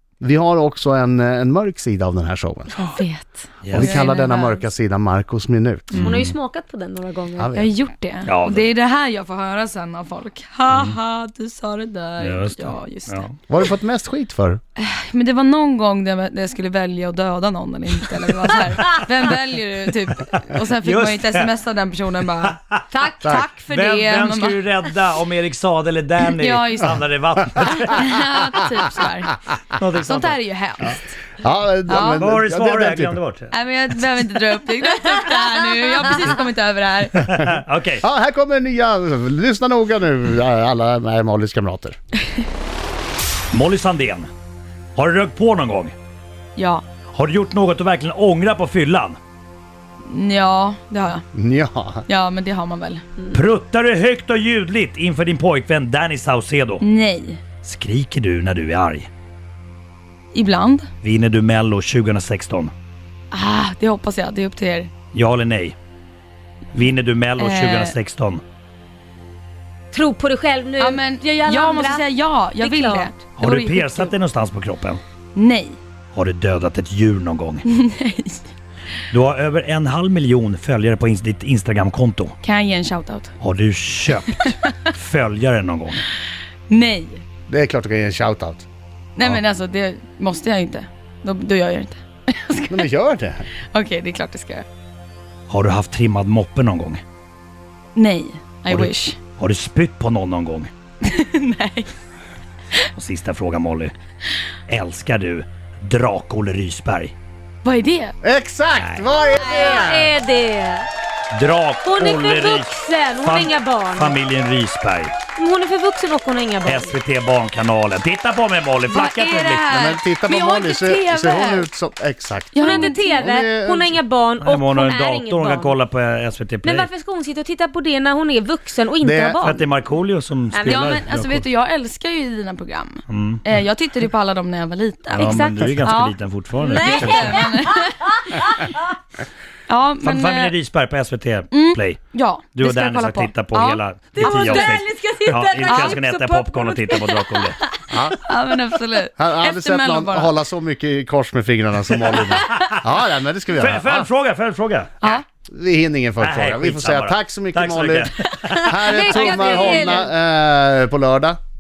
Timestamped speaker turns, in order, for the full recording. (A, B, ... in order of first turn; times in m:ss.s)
0:00.2-0:02.8 A
0:02.7-0:04.7 B
0:03.6-0:04.1 C
0:03.7-0:06.2 A
0:05.9-0:06.4 C
0:05.9-0:07.5 D
0:07.4-0:07.7 A
0:07.5-0:13.3 B
0:08.3-0:08.7 C
0:10.7-0:11.0 C
0:12.2-0:13.4 C
0:13.5-0:14.6 A
0:14.8-0:22.6 B
0:20.8-0:21.5 C
0:22.9-0:23.5 D
0:23.2-0:23.5 A
0:23.2-0:24.6 B
0:23.7-0:28.1 C
0:26.4-0:27.1 B
0:27.6-0:29.4 B
0:29.7-0:30.9 C
0:30.0-0:31.2 B
0:31.4-0:33.2 A
0:31.9-0:32.3 B
0:32.1-0:33.5 C
0:33.5-0:37.5 B
0:37.3-0:38.0 C
0:38.0-0:42.0 A
0:43.5-0:44.3 C
0:45.0-0:46.0 C
0:46.6-0:46.8 B
0:47.1-0:49.2 C
0:50.0-0:51.2 B
0:51.3-0:52.0 A
0:52.1-0:53.0 B
0:53.3-0:56.8 C
0:56.8-0:57.4 B
0:57.6-0:59.1 C
1:00.3-1:00.9 B
1:01.0-1:02.7 C
1:03.3-1:04.9 B
1:05.1-1:05.8 C
1:06.7-1:08.4 C
1:07.4-1:08.0 B
1:09.9-1:13.1 D
1:10.8-1:14.1 B
1:13.4-1:15.0 C
1:15.3-1:15.8 B
1:16.1-1:17.6 C
1:17.7-1:18.5 B
1:19.1-1:22.4 C
1:22.4-1:23.3 B
1:23.4-1:26.1 C
1:24.3-1:24.7 B
1:26.7-1:27.2 B
1:27.5-1:28.7 A
1:29.2-1:32.9 B
1:32.7-1:33.5 A
1:33.7-1:34.7 B
1:35.5-1:37.0 C
1:38.0-1:39.2 B
1:38.7-1:40.7 C
1:41.0-1:41.9 B
1:43.0-1:43.9 C
1:44.7-1:47.1 C
1:47.6-1:48.2 B
1:48.2-1:50.1 A
1:48.8-1:49.0 C
1:49.3-1:50.9 D
1:49.6-1:49.9 B
1:51.3-1:55.2 C
1:51.8-1:54.2 D
1:55.3-1:57.0 D
1:56.6-1:59.7 C
1:58.9-2:01.7 B
1:59.7-2:04.0 A
2:02.5-2:03.3 B
2:02.6-2:05.7 D
2:04.4-2:06.9 C
2:06.6-2:09.6 D
2:09.0-2:09.4 A
2:09.4-2:11.5 C
2:10.6-2:10.8 D
2:10.6-2:18.6 B
2:13.1-2:13.4 C
2:15.1-2:15.9 D
2:15.2-2:17.4 C
2:16.6-2:18.4 D
2:19.7-2:20.6 B
2:20.0-2:22.0 C
2:21.5-2:24.8 B
2:22.6-2:27.6 C
2:24.2-2:27.1 D
2:25.6-2:26.0 B
2:27.0-2:27.3 B
2:27.9-2:28.3 A
2:28.2-2:30.4 B
2:29.2-2:34.1 A
2:31.9-2:32.8 C
2:33.5-2:35.2 C
2:35.5-2:41.4 A
2:36.2-2:39.9 C
2:38.5-2:40.1 D